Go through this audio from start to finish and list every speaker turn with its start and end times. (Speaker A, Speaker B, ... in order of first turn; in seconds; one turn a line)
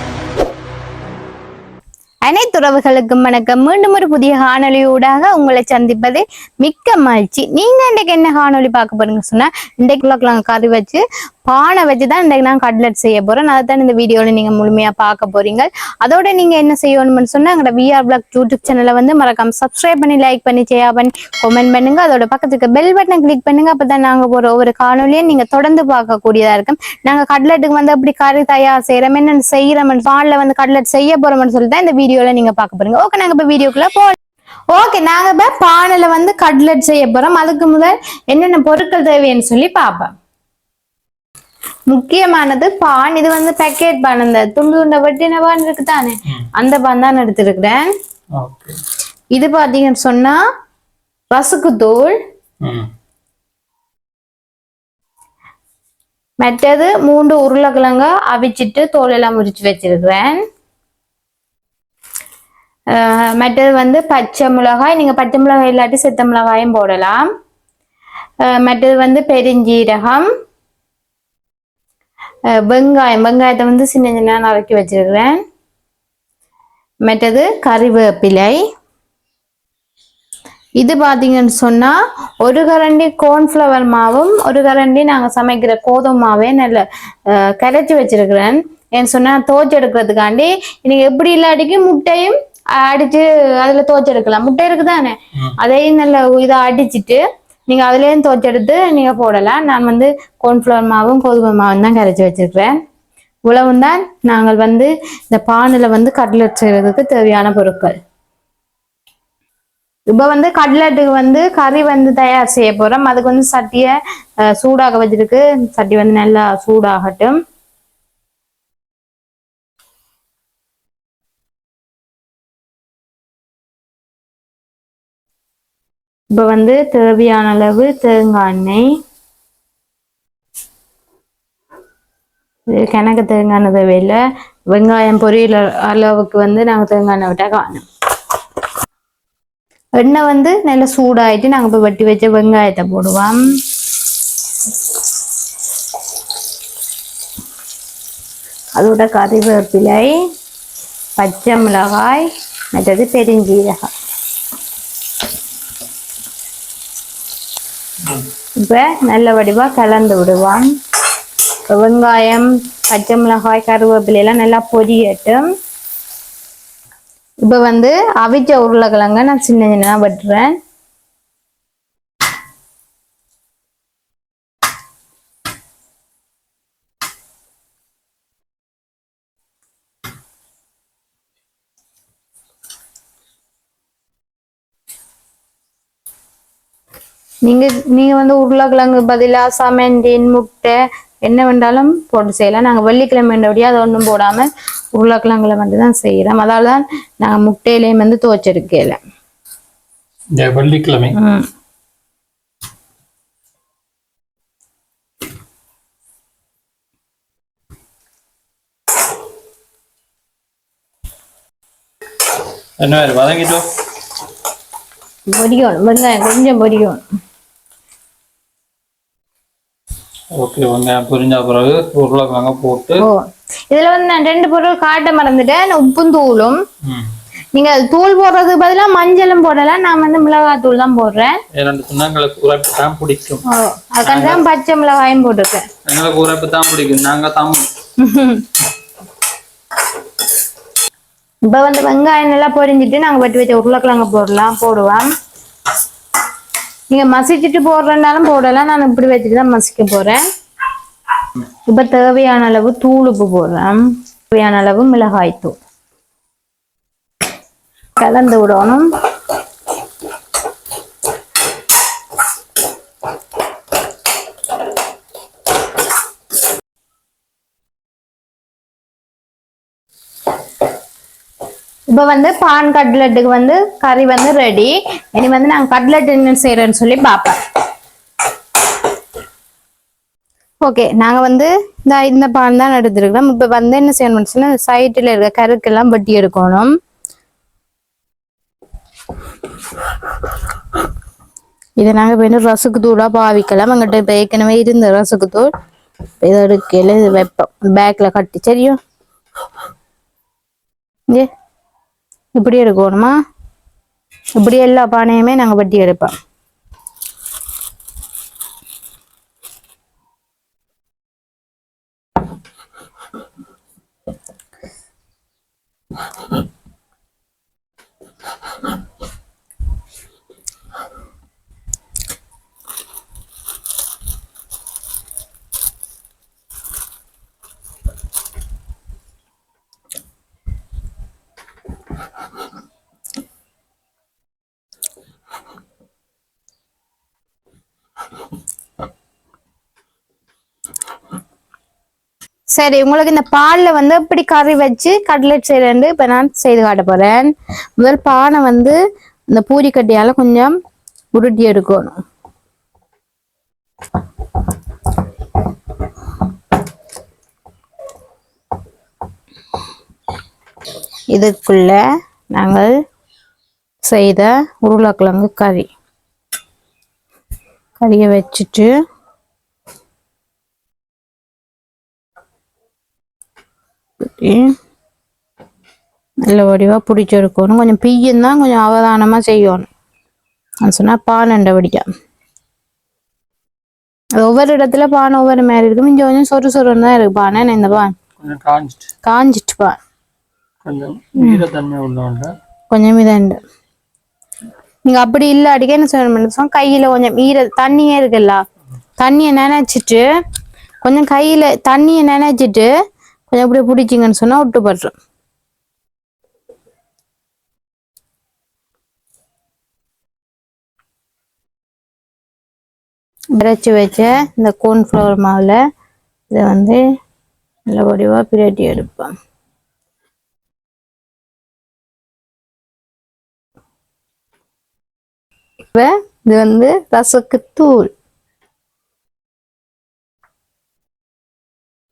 Speaker A: 2.2-34.2
Speaker A: 34.7-40.1
Speaker A: 41.9-47.9
Speaker B: 48.4-48.8
Speaker A: 49.3-50.4
Speaker A: 51.3-52.2
Speaker B: 52.6-52.9
Speaker A: 56.4-60.4
Speaker A: 62.9-67.2
Speaker A: 68.4-70.3
Speaker A: 72.5-75.4
Speaker A: 77.0-78.6
Speaker A: 80.8-102.8
Speaker A: 103.5-108.0
Speaker A: 110.1-113.9
Speaker A: 114.5-117.4
Speaker A: 126.3-128.9
Speaker A: 132.7-134.2
Speaker A: 134.7-137.8
Speaker A: 140.0-143.4
Speaker A: 148.8-150.1
Speaker A: 151.2-153.9
Speaker A: 158.6-160.7
Speaker A: 161.7-165.5
Speaker A: 167.4-170.6
Speaker A: 187.5-199.0
Speaker B: 200.4-201.2
Speaker A: 201.2-201.5
Speaker B: 212.8-213.7
Speaker A: 215.3-217.0
Speaker B: 220.4-223.1
Speaker A: 223.7-226.6
Speaker B: 226.8-227.1
Speaker A: 227.5-231.4
Speaker B: 231.6-233.4
Speaker A: 233.5-235.7
Speaker B: 234.0-234.4
Speaker B: 235.9-237.7
Speaker A: 238.0-238.4
Speaker A: 241.5-245.1
Speaker A: 246.9-250.2
Speaker A: 251.7-255.6
Speaker A: 258.0-258.9
Speaker A: 271.9-277.4
Speaker A: 280.6-286.7
Speaker A: 291.8-295.5
Speaker A: 296.2-298.8
Speaker A: 302.4-303.1
Speaker A: 304.4-306.1
Speaker A: 342.5-348.8
Speaker A: 349.3-350.6
Speaker A: 351.1-352.0
Speaker A: 361.1-361.8
Speaker A: 362.3-362.7
Speaker A: 363.8-365.7
Speaker A: 367.8-368.7
Speaker A: 374.0-374.6
Speaker A: 376.3-379.7
Speaker A: 380.6-381.9
Speaker A: 384.2-387.9
Speaker B: 388.2-388.9
Speaker A: 389.1-389.8
Speaker B: 390.6-392.3
Speaker A: 392.7-393.4
Speaker A: 394.9-398.4
Speaker A: 399.0-400.0
Speaker A: 400.8-402.7
Speaker A: 403.3-404.9
Speaker A: 413.4-415.6
Speaker A: 416.3-416.8
Speaker A: 417.7-419.1
Speaker A: 425.7-427.9